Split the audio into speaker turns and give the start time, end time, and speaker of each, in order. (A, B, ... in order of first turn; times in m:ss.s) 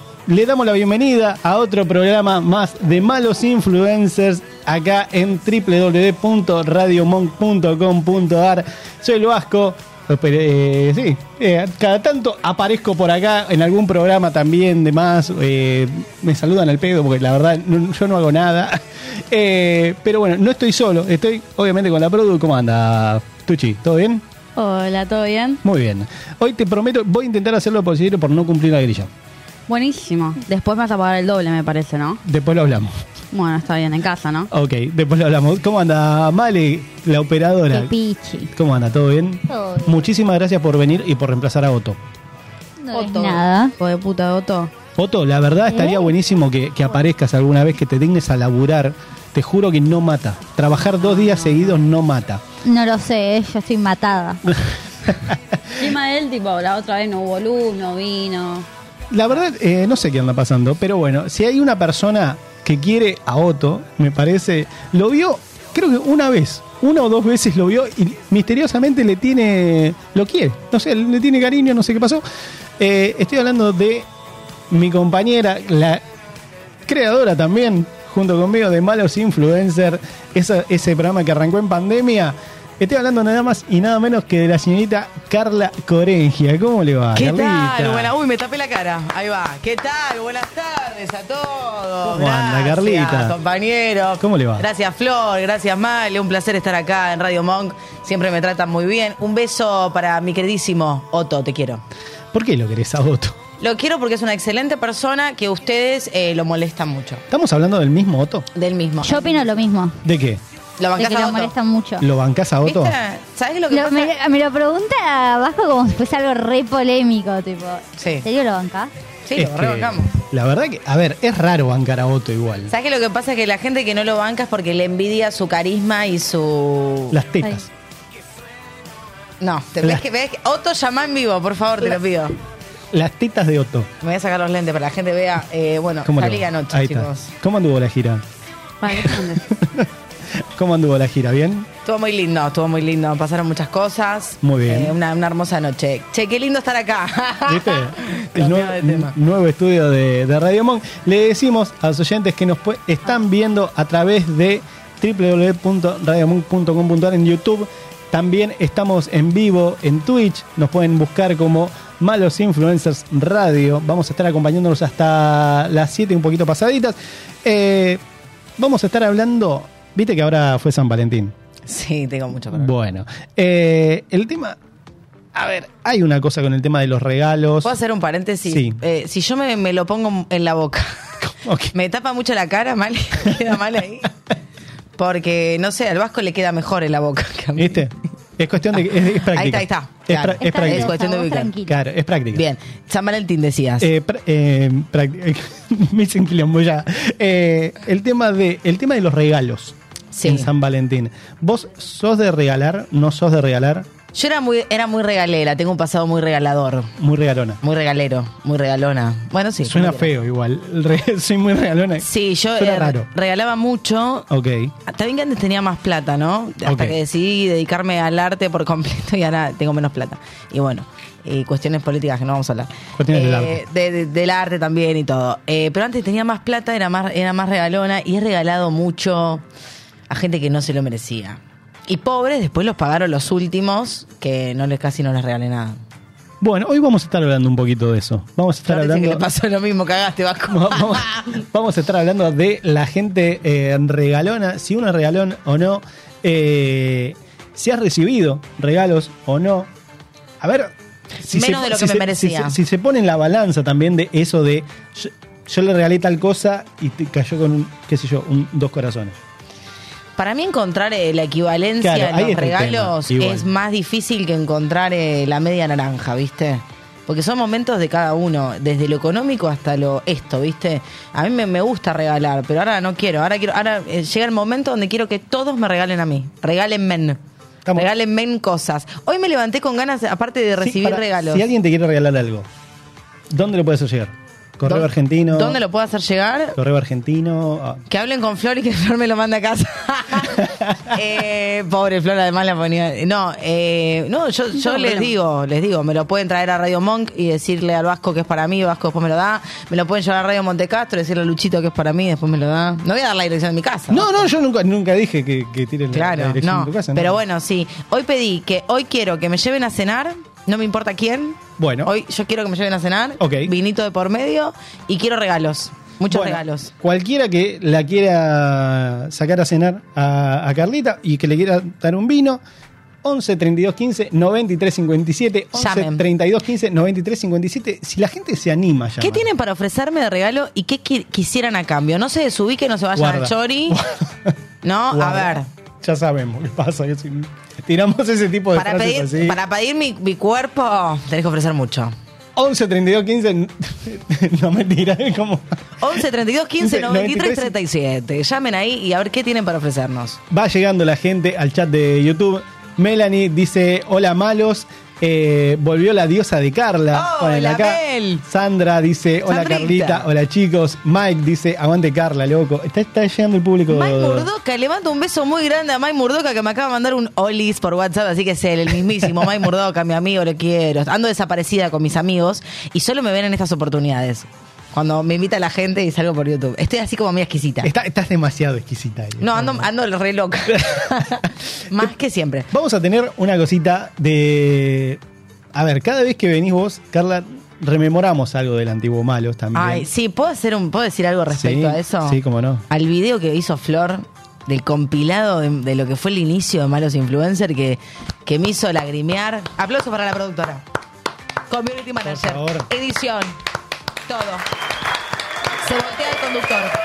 0:00.3-0:24.2 A
0:24.6-0:25.6 B
0:25.6-0:29.1 A
0:29.7-0:32.2 B
0:32.2-0:32.9 A
0:33.3-0:34.5 B
0:34.5-0:37.9 A
0:37.7-0:38.5 C
0:38.5-0:42.0 A
0:39.5-0:40.0 C
0:42.8-0:43.7 C
0:42.9-0:44.7 B
0:45.0-0:52.4 A
0:45.7-0:46.1 C
0:51.0-0:51.8 B
0:52.6-0:54.4 C
0:55.1-0:55.3 A
0:55.7-0:58.6 B
0:59.1-1:12.2 A
1:12.8-1:14.1 A
1:14.7-1:16.0 A
1:16.8-1:28.1 A
1:27.1-1:41.8 D
1:32.0-1:33.3 A
1:34.2-1:34.6 A
1:42.3-1:43.4 A
1:43.6-1:47.2 D
1:47.3-1:48.5 A
1:48.5-1:49.6 D
1:49.0-1:50.0 C
1:50.0-1:50.4 A
1:50.8-1:51.5 D
1:51.0-1:52.0 C
1:52.0-1:53.0 A
1:52.6-1:54.1 D
1:53.7-1:58.9 C
1:58.0-1:58.2 D
1:59.2-2:00.1 D
1:59.3-2:02.7 A
2:02.7-2:07.2 D
2:07.1-2:07.7 A
2:09.4-2:12.4 D
2:12.9-2:13.9 A
2:14.0-2:17.3 D
2:16.0-2:18.2 A
2:18.8-2:19.4 B
2:18.9-2:21.7 A
2:21.8-2:29.1 D
2:24.4-2:25.0 A
2:27.5-2:48.0 A
2:48.6-2:51.3 A
2:51.6-2:52.7 D
2:52.5-2:54.6 A
2:55.3-2:57.7 A
2:57.6-3:01.1 D
2:58.4-2:58.8 A
3:01.2-3:01.7 A
3:01.7-3:04.1 D
3:05.0-3:07.8 D
3:07.6-3:11.0 A
3:08.7-3:11.5 D
3:10.4-3:11.7 C
3:11.6-3:12.4 A
3:12.3-3:13.9 D
3:13.8-3:23.9 A
3:20.1-3:20.5 D
3:24.1-3:26.9 D
3:27.0-3:27.6 A
3:27.6-3:30.1 D
3:29.6-3:33.1 A
3:32.0-3:34.3 D
3:34.3-3:34.7 A
3:34.8-3:49.4 D
3:36.6-3:37.0 A
3:43.0-3:43.6 A
3:50.1-3:55.8 D
3:56.4-3:59.2 A
3:58.6-4:01.2 D
4:00.5-4:09.7 A
4:10.4-4:19.2 A
4:11.2-4:12.6 D
4:20.2-4:37.2 D
4:21.8-4:23.5 A
4:37.7-4:41.4 D
4:40.6-4:42.5 A
4:43.3-4:45.6 A
4:44.7-4:46.6 D
4:46.6-4:47.8 A
4:47.9-5:04.2 D
4:54.6-4:55.1 B
5:03.9-5:07.2 A
5:05.9-5:16.7 D
5:11.6-5:11.9 A
5:13.2-5:13.5 A
5:16.1-5:22.4 A
5:23.0-5:29.3 A
5:25.5-5:26.0 D
5:29.0-5:33.8 D
5:32.9-5:34.3 A
5:34.6-5:35.5 D
5:34.9-5:39.4 A
5:38.5-5:41.9 D
5:42.4-5:46.0 A
5:45.8-5:50.2 D
5:46.6-5:47.5 A
5:50.3-6:04.3 A
5:56.9-5:58.2 D
5:59.3-6:00.1 D
6:03.7-6:17.7 D
6:17.6-6:19.7 A
6:19.2-6:22.5 D
6:20.5-6:20.8 A
6:22.5-6:25.0 A
6:25.5-6:29.9 A
6:29.5-6:40.6 D
6:31.3-6:32.6 A
6:41.5-6:43.4 D
6:42.0-6:42.7 A
6:44.1-6:44.4 D
6:45.6-6:46.8 D